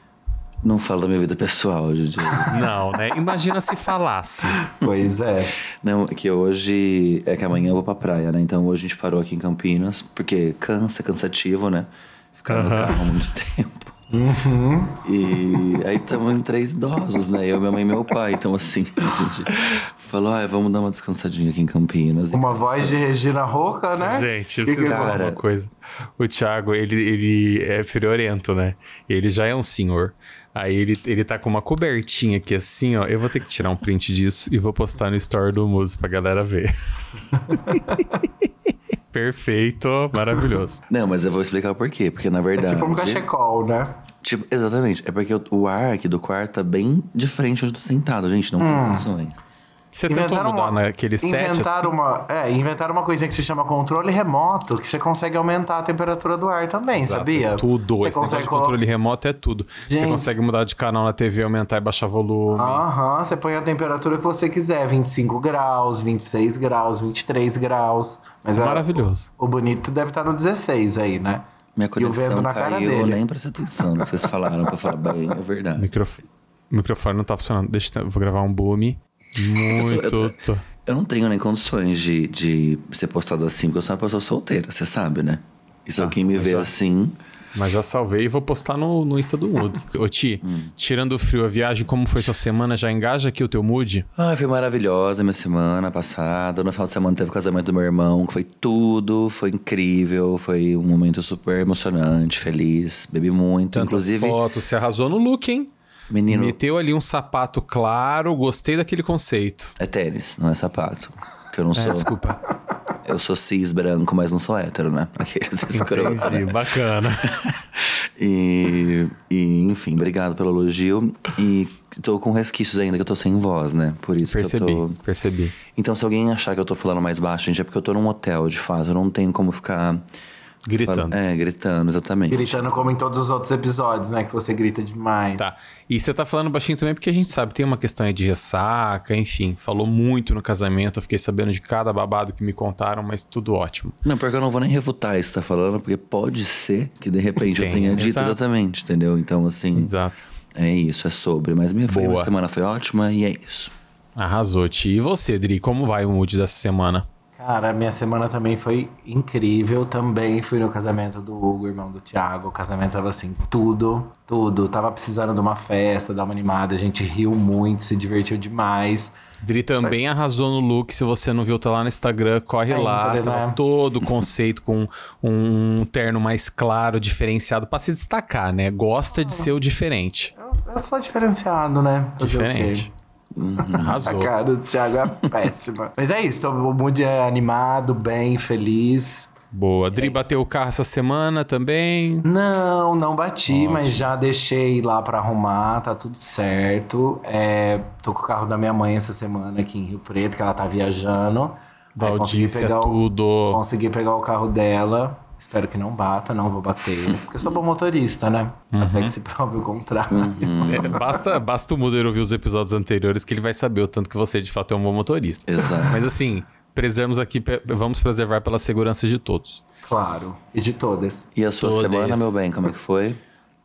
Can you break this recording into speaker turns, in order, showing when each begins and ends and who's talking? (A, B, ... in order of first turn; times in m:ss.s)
0:00.6-0:02.8 A
0:02.5-0:04.6 B
0:04.6-0:05.6 C
0:04.8-0:05.1 A
0:05.8-0:13.9 A
0:12.5-0:13.1 B
0:14.1-0:15.0 C
0:15.0-0:23.0 A
0:22.3-0:25.3 C
0:24.0-0:36.7 B
0:24.8-0:25.4 A
0:37.5-0:38.0 B
0:39.1-0:40.8 B
0:40.9-0:43.3 A
0:42.6-0:44.0 C
0:44.2-0:49.4 A
0:48.6-0:49.1 C
0:49.9-0:51.9 B
0:50.1-0:58.8 C
0:57.0-1:02.8 B
0:59.8-1:00.4 C
1:02.5-1:08.9 C
1:08.6-1:09.3 B
1:09.4-1:11.4 C
1:11.8-1:15.9 A
1:12.0-1:13.2 C
1:15.8-1:20.6 B
1:19.7-1:27.2 A
1:26.0-1:26.7 B
1:27.6-1:34.1 B
1:30.4-1:30.7 A
1:34.2-1:44.4 A
1:43.7-1:45.7 B
1:46.1-1:46.6 A
1:46.3-1:49.7 B
1:49.8-1:52.1 A
1:51.8-1:52.4 B
1:53.0-1:56.6 A
1:55.7-1:57.6 B
1:57.8-2:05.0 A
2:04.2-2:05.5 B
2:05.7-2:10.0 A
2:10.7-2:11.2 B
2:10.8-2:12.8 A
2:12.3-2:15.5 C
2:15.4-2:24.0 B
2:24.0-2:29.9 A
2:27.4-2:28.4 B
2:29.8-2:30.2 B
2:30.6-2:33.7 A
2:31.9-2:32.3 B
2:34.2-2:37.1 B
2:37.4-2:49.1 C
2:49.4-3:00.3 B
2:52.7-2:53.6 C
3:00.4-3:02.9 C
3:02.2-3:02.9 B
3:03.4-3:04.1 A
3:03.8-3:09.3 C
3:03.8-3:04.3 B
3:09.5-3:12.2 B
3:09.9-3:10.2 C
3:12.2-3:31.2 C
3:13.5-3:14.1 B
3:22.0-3:23.6 B
3:28.7-3:29.1 B
3:30.1-3:31.0 A
3:30.7-3:39.6 B
3:35.5-3:36.0 A
3:39.8-3:41.3 C
3:41.4-3:43.2 A
3:41.6-3:42.4 B